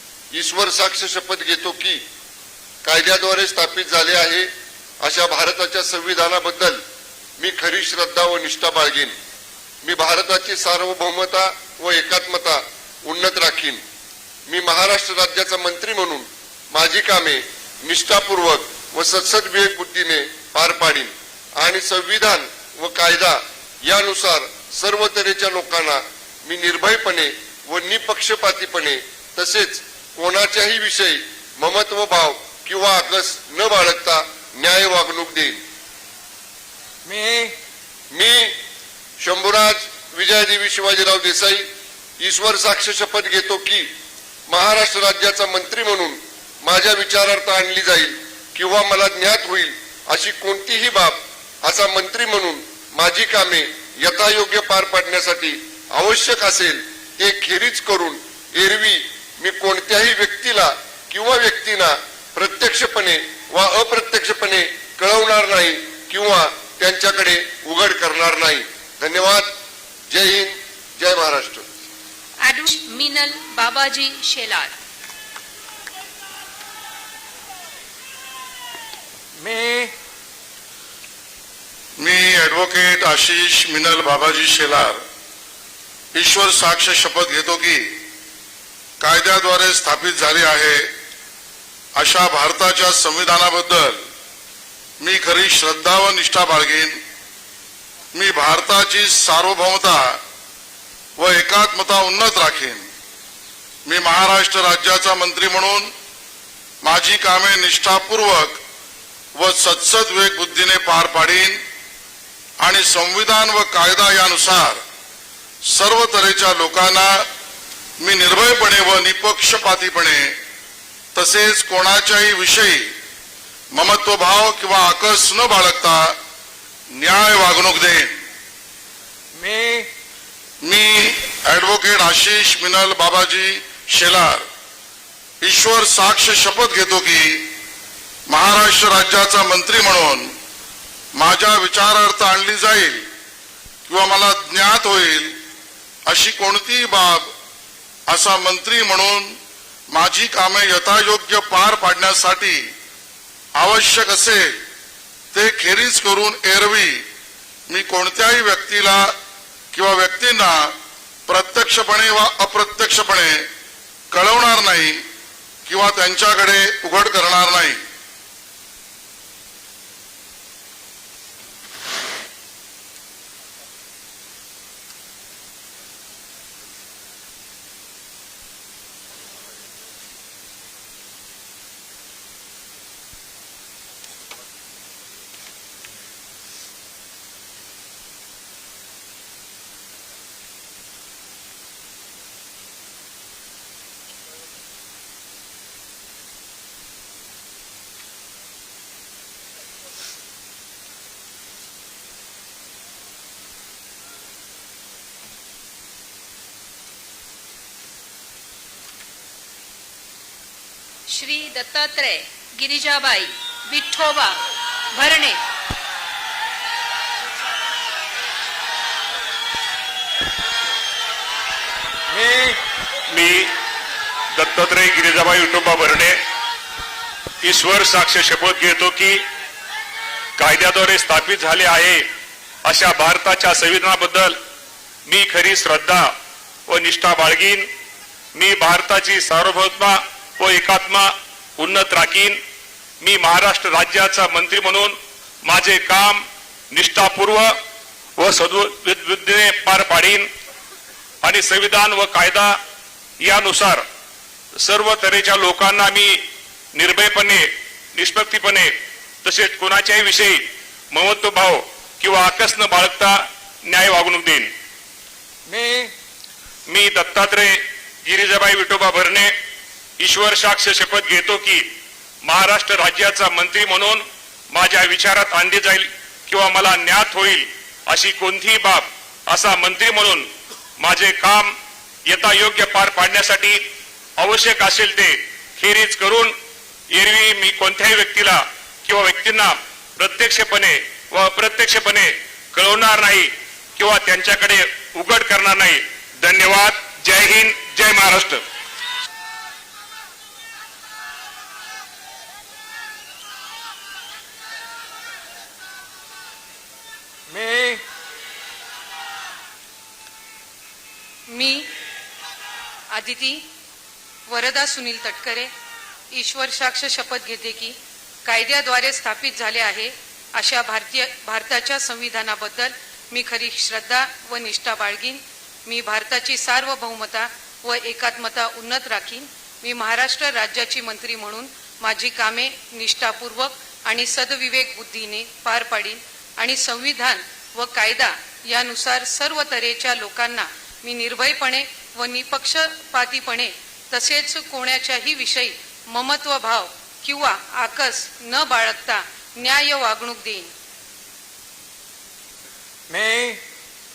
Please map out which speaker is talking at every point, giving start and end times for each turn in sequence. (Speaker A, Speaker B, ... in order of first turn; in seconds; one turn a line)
Speaker A: 0.3-2.0
Speaker A: 2.8-6.8
Speaker A: 7.4-9.2
Speaker A: 9.8-13.8
Speaker A: 14.5-35.6
Speaker B: 37.0-37.5
Speaker A: 38.1-38.6
Speaker A: 39.2-41.7
Speaker A: 42.2-43.9
Speaker A: 44.5-69.5
Speaker A: 70.1-71.7
Speaker C: 72.4-74.7
Speaker B: 79.4-79.9
Speaker D: 82.0-85.0
Speaker D: 86.1-88.0
Speaker D: 89.0-90.9
Speaker D: 92.0-94.0
Speaker D: 95.0-97.0
Speaker D: 98.1-100.2
Speaker D: 101.2-102.9
Speaker D: 103.9-105.9
Speaker D: 106.8-108.6
Speaker D: 109.4-111.6
Speaker D: 112.6-114.8
Speaker D: 115.7-117.3
Speaker D: 118.0-120.4
Speaker D: 121.2-122.9
Speaker D: 123.7-126.2
Speaker D: 127.0-128.2
Speaker B: 129.3-129.9
Speaker D: 130.6-134.5
Speaker D: 135.4-137.5
Speaker D: 138.3-140.3
Speaker D: 141.2-143.1
Speaker D: 143.9-145.4
Speaker D: 146.1-147.3
Speaker D: 148.1-149.4
Speaker D: 149.9-152.7
Speaker D: 153.6-154.6
Speaker D: 155.3-157.1
Speaker D: 157.7-159.2
Speaker D: 159.7-160.8
Speaker D: 161.3-163.5
Speaker D: 164.1-165.0
Speaker D: 165.7-167.8
Speaker C: 211.1-214.4
Speaker C: 214.9-215.4
Speaker B: 222.1-222.6
Speaker E: 223.1-223.5
Speaker E: 224.4-226.2
Speaker E: 227.4-229.2
Speaker E: 230.4-232.1
Speaker E: 232.7-234.4
Speaker E: 235.1-236.1
Speaker E: 236.7-237.7
Speaker E: 238.3-242.4
Speaker E: 243.0-247.6
Speaker E: 248.2-250.3
Speaker E: 251.2-252.6
Speaker E: 253.2-253.8
Speaker E: 254.6-256.2
Speaker E: 256.7-264.5
Speaker B: 265.5-265.9
Speaker E: 266.7-269.3
Speaker E: 270.0-271.7
Speaker E: 272.2-281.6
Speaker E: 282.1-283.6
Speaker E: 284.2-286.4
Speaker E: 286.9-298.4
Speaker B: 307.3-307.8
Speaker F: 311.3-311.7
Speaker F: 312.9-313.4
Speaker F: 314.3-315.5
Speaker F: 316.1-350.5
Speaker B: 352.9-353.4